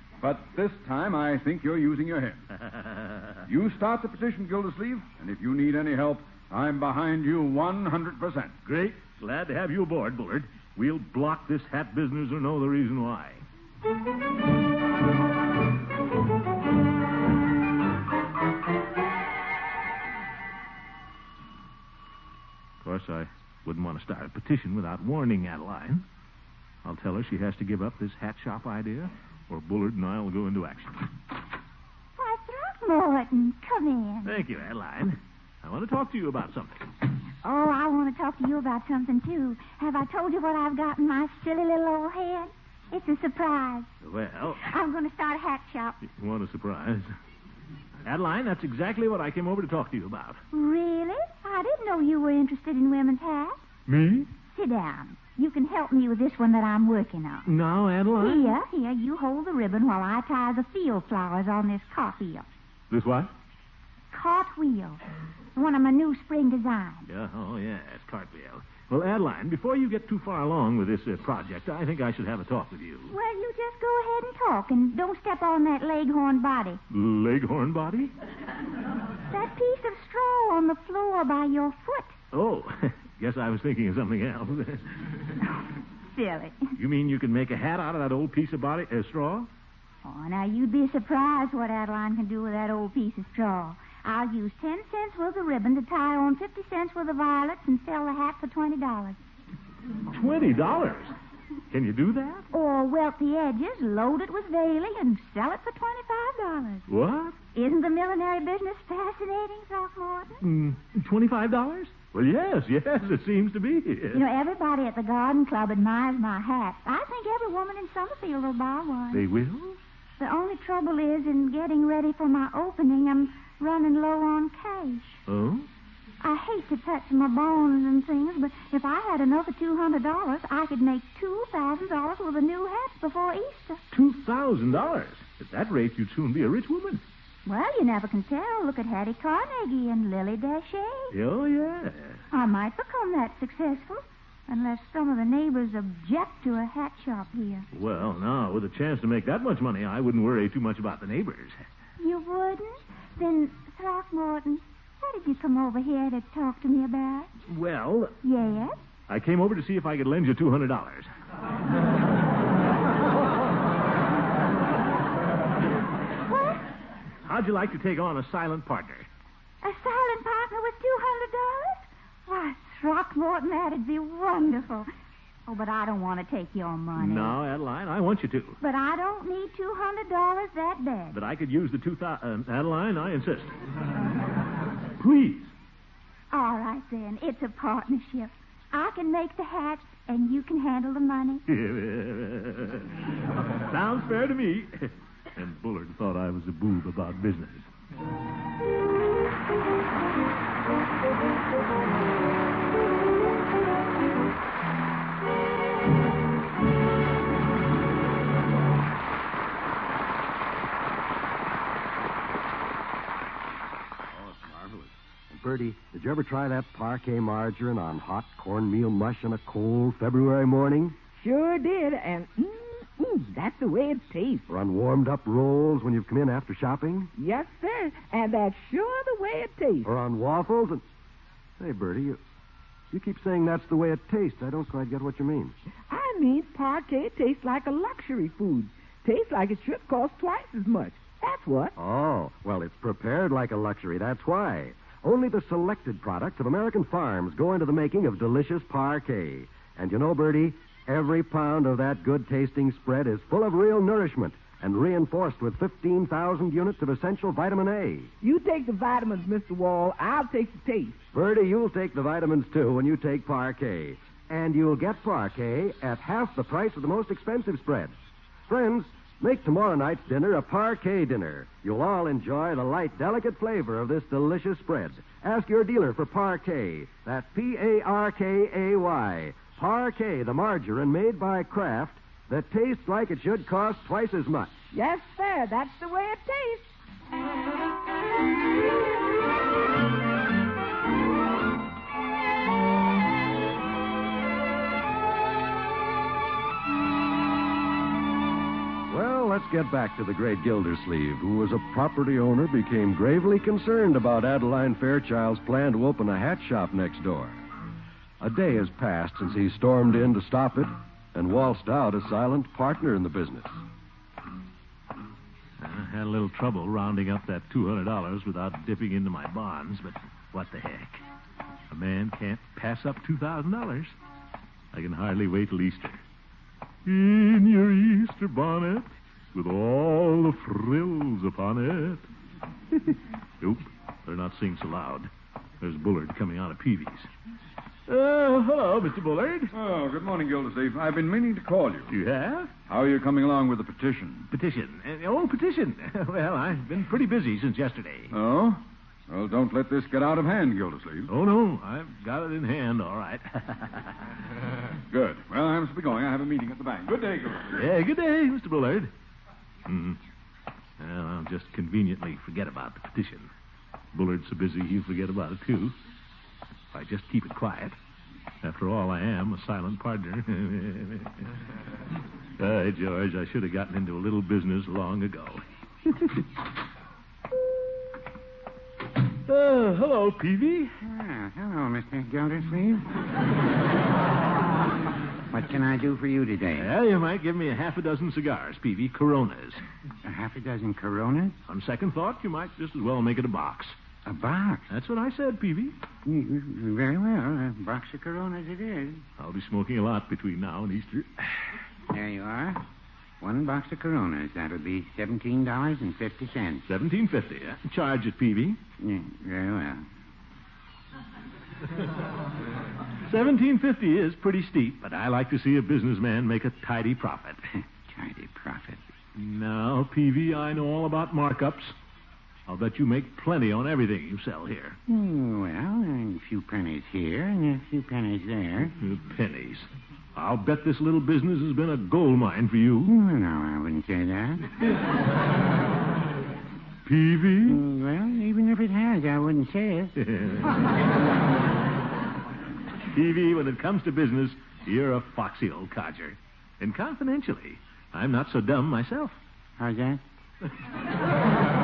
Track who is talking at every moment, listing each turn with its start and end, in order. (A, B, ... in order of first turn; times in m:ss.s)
0:00.2-0:02.4 A
0:02.7-0:03.3 B
0:03.5-0:08.6 A
0:08.6-0:13.4 B
0:22.8-0:26.0 B
0:26.8-0:31.1 B
0:32.2-0:34.4 C
0:34.2-0:36.9 B
0:37.4-0:43.9 C
0:44.0-0:44.7 B
0:44.6-0:46.0 C
0:46.0-0:47.2 B
0:48.0-0:50.4 B
0:50.5-0:53.6 C
0:53.9-0:54.3 B
0:54.5-0:57.5 C
0:57.4-0:58.6 B
0:58.2-1:02.5 C
1:02.9-1:03.3 B
1:04.1-1:05.0 C
1:05.6-1:07.1 C
1:07.1-1:13.1 B
1:13.1-1:16.8 C
1:16.9-1:18.1 B
1:19.3-1:22.2 C
1:22.3-1:25.0 B
1:26.1-1:26.7 C
1:26.8-1:29.5 B
1:30.0-1:39.2 C
1:40.1-1:41.1 B
1:41.7-1:42.5 B
1:42.5-1:46.8 C
1:46.9-1:47.4 B
1:47.5-1:50.4 C
1:50.4-1:54.2 B
1:54.1-1:59.3 C
1:59.1-1:59.8 B
2:00.2-2:05.2 C
2:05.3-2:05.7 B
2:06.2-2:13.8 C
2:13.9-2:17.0 B
2:17.4-2:21.1 C
2:21.1-2:22.2 B
2:22.3-2:27.7 C
2:27.7-2:31.6 B
2:32.0-2:37.3 C
2:37.5-2:38.2 B
2:38.2-2:38.8 C
2:39.1-2:41.1 B
2:46.3-2:46.6 C
2:47.2-2:49.1 B
2:49.6-2:54.9 C
2:55.5-2:57.4 C
2:57.0-2:58.6 B
2:58.6-3:01.2 C
3:01.1-3:03.5 B
3:05.0-3:05.5 B
3:06.3-3:11.4 C
3:11.5-3:12.9 B
3:13.5-3:17.7 B
3:35.3-3:41.0 D
3:41.2-3:44.4 E
3:44.5-3:47.1 D
3:47.2-3:49.9 E
3:49.8-3:50.8 D
3:51.6-3:52.2 D
3:52.9-3:55.5 D
3:55.9-4:01.7 E
4:01.8-4:18.1 D
4:18.2-4:21.0 E
4:21.1-4:27.9 D
4:28.5-4:44.6 D
4:44.7-4:46.7 E
4:58.9-5:07.4 D
5:08.2-5:13.6 D
5:15.6-5:21.0 B
5:21.7-5:24.0 B
5:24.7-5:26.0 B
5:26.8-5:32.0 B
5:32.7-5:37.1 B
5:37.9-5:39.5 B
5:39.5-5:41.9 A
5:41.9-5:42.5 B
5:42.7-5:44.3 A
5:44.3-5:48.1 B
5:48.1-5:51.1 A
5:51.1-5:53.9 B
5:54.9-5:57.7 A
5:57.5-5:58.9 B
5:59.7-6:00.0 B
6:00.8-6:03.3 B
6:03.9-6:05.8 B
6:06.7-6:07.8 B
6:08.4-6:11.2 B
6:12.4-6:16.1 B
6:19.3-6:20.8 B
6:20.8-6:22.8 F
6:25.3-6:26.7 F
6:26.6-6:29.6 B
6:30.0-6:31.4 F
6:31.5-6:33.8 B
6:34.0-6:34.7 F
6:34.7-6:35.8 B
6:36.0-6:39.0 F
6:39.2-6:41.5 B
6:41.9-6:42.6 F
6:43.2-6:46.6 F
6:46.7-6:48.6 B
6:48.8-6:49.8 F
6:53.0-6:57.4 B
6:57.8-6:58.8 F
6:59.2-7:01.7 B
7:02.5-7:04.8 B
7:04.9-7:08.7 F
7:08.8-7:12.9 B
7:12.9-7:14.5 F
7:16.9-7:17.6 B
7:17.5-7:19.9 F
7:20.0-7:20.6 B
7:22.9-7:29.2 B
7:29.6-7:30.0 F